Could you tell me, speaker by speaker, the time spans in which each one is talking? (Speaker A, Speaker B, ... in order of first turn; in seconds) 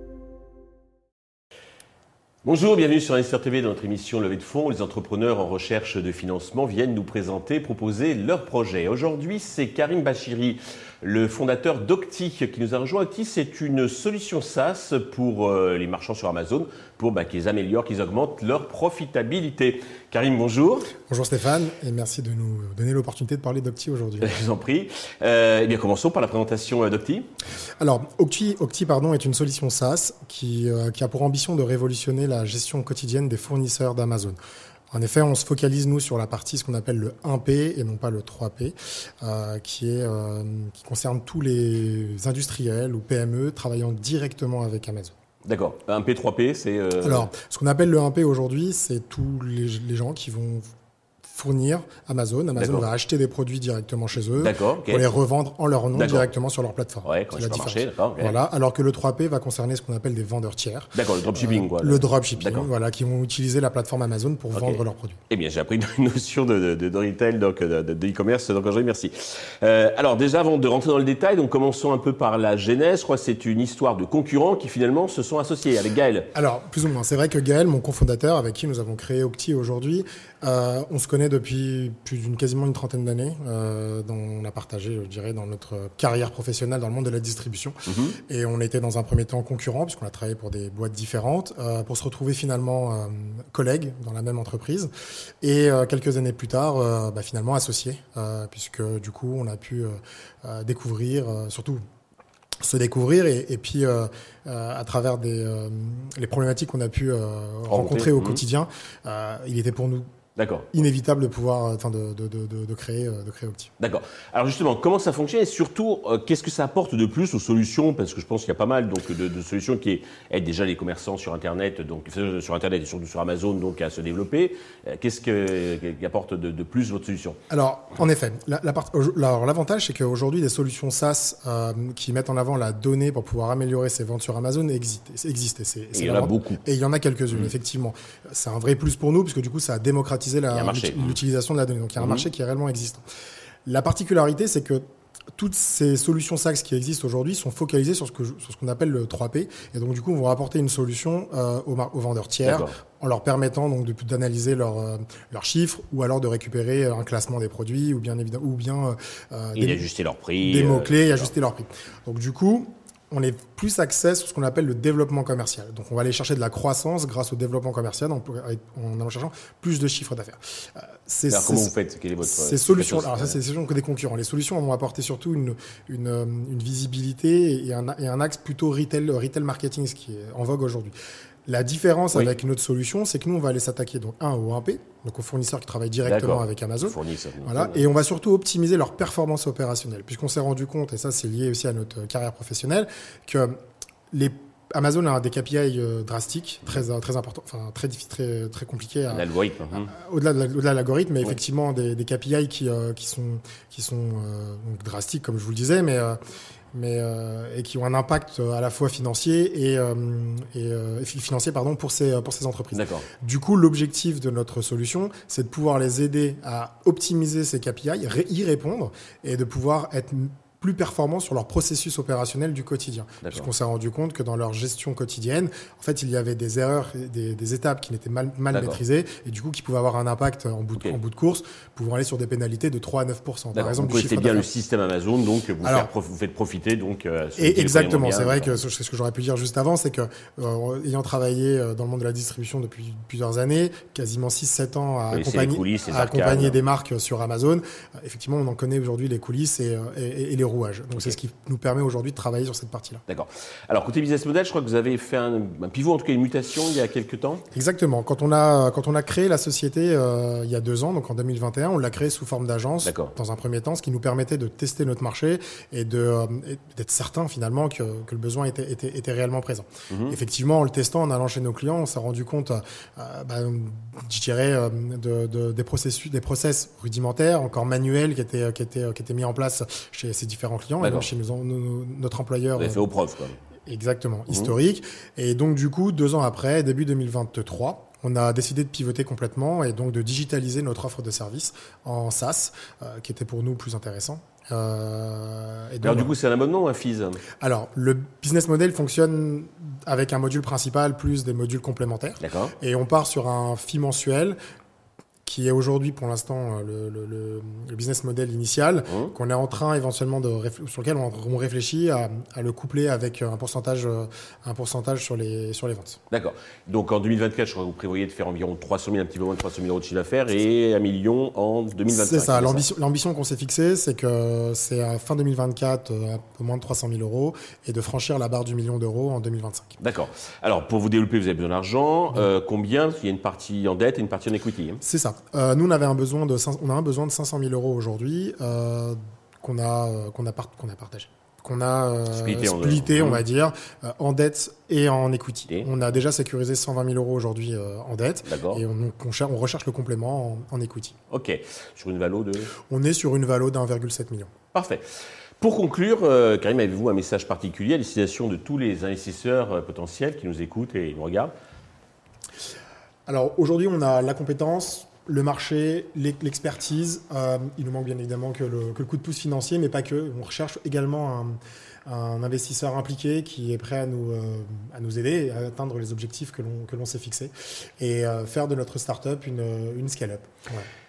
Speaker A: 2.4-20.9, 24.2-27.2, 45.5-47.3, 52.6-52.8, 54.4-55.1, 55.9-56.3, 57.0-58.4, 60.9-62.7, 64.5-76.3, 87.9-88.2, 107.7-108.4, 110.3-110.7, 113.8-127.4, 135.9-136.6, 140.5-141.2, 142.0-142.2, 152.4-152.7, 159.5-161.3, 171.3-173.3, 186.0-187.8, 199.1-199.9, 212.7-213.1, 223.2-223.5, 228.5-228.8, 233.5-238.6, 245.1-246.6, 253.1-257.4, 262.8-263.1, 269.9-270.2, 280.8-281.1, 282.6-283.4, 284.3-284.5, 295.8-297.2, 302.2-302.5, 308.9-309.1, 316.1-322.6, 329.8-334.8, 342.1-343.2, 348.2-348.6, 351.1-352.5, 354.5-354.8, 355.4-361.3
Speaker B: 21.1-24.4, 27.8-34.4, 34.9-45.1, 47.0-50.7, 51.2-65.2, 76.3-94.9, 95.4-101.8, 102.6-110.1, 110.7-113.7, 127.5-143.0, 143.7-144.8, 145.3-159.8, 160.4-180.9, 181.4-193.6, 194.1-206.2, 206.7-234.5, 235.6-235.9, 237.4-253.0, 257.5-282.9, 283.7-296.1, 297.4-304.4, 305.2-316.0, 321.9-329.8, 334.8-350.9, 352.7-354.3, 363.1-380.7